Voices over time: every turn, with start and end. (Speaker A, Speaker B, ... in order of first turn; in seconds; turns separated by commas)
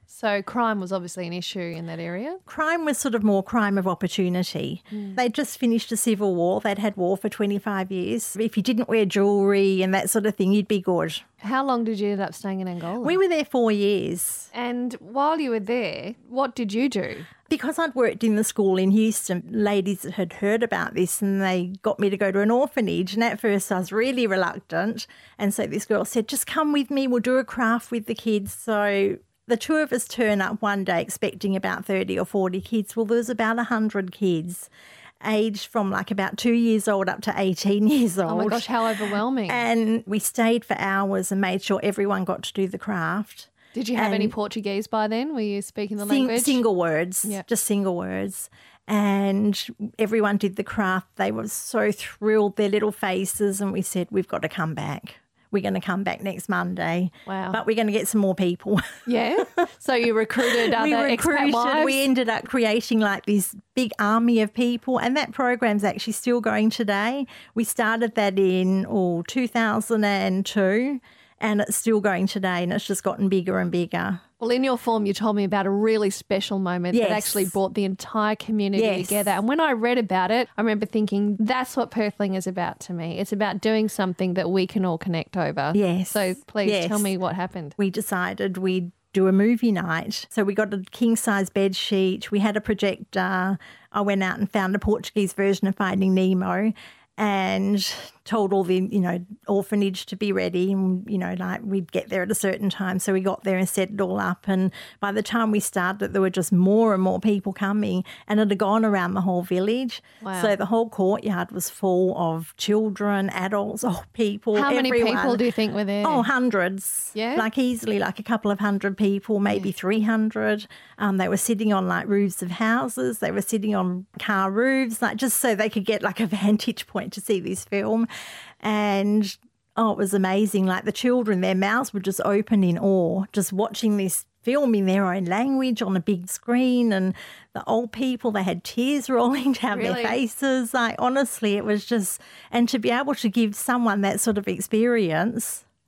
Speaker A: 0.1-2.4, Speaker B: 2.5-11.2, Speaker A: 11.4-13.2, Speaker B: 13.0-14.5, Speaker A: 14.5-17.3, Speaker B: 17.5-34.7, Speaker B: 35.2-44.4, Speaker A: 38.3-39.6, Speaker A: 43.7-46.6, Speaker B: 46.0-58.8, Speaker A: 57.3-57.6, Speaker A: 59.1-62.1, Speaker B: 60.4-74.2, Speaker A: 74.4-87.8, Speaker B: 76.9-77.5, Speaker B: 78.8-79.3, Speaker B: 85.7-87.1, Speaker B: 87.8-115.4, Speaker A: 110.2-110.5, Speaker A: 114.5-116.3, Speaker B: 116.0-128.1, Speaker A: 117.1-117.5, Speaker B: 128.6-145.6, Speaker A: 139.7-140.2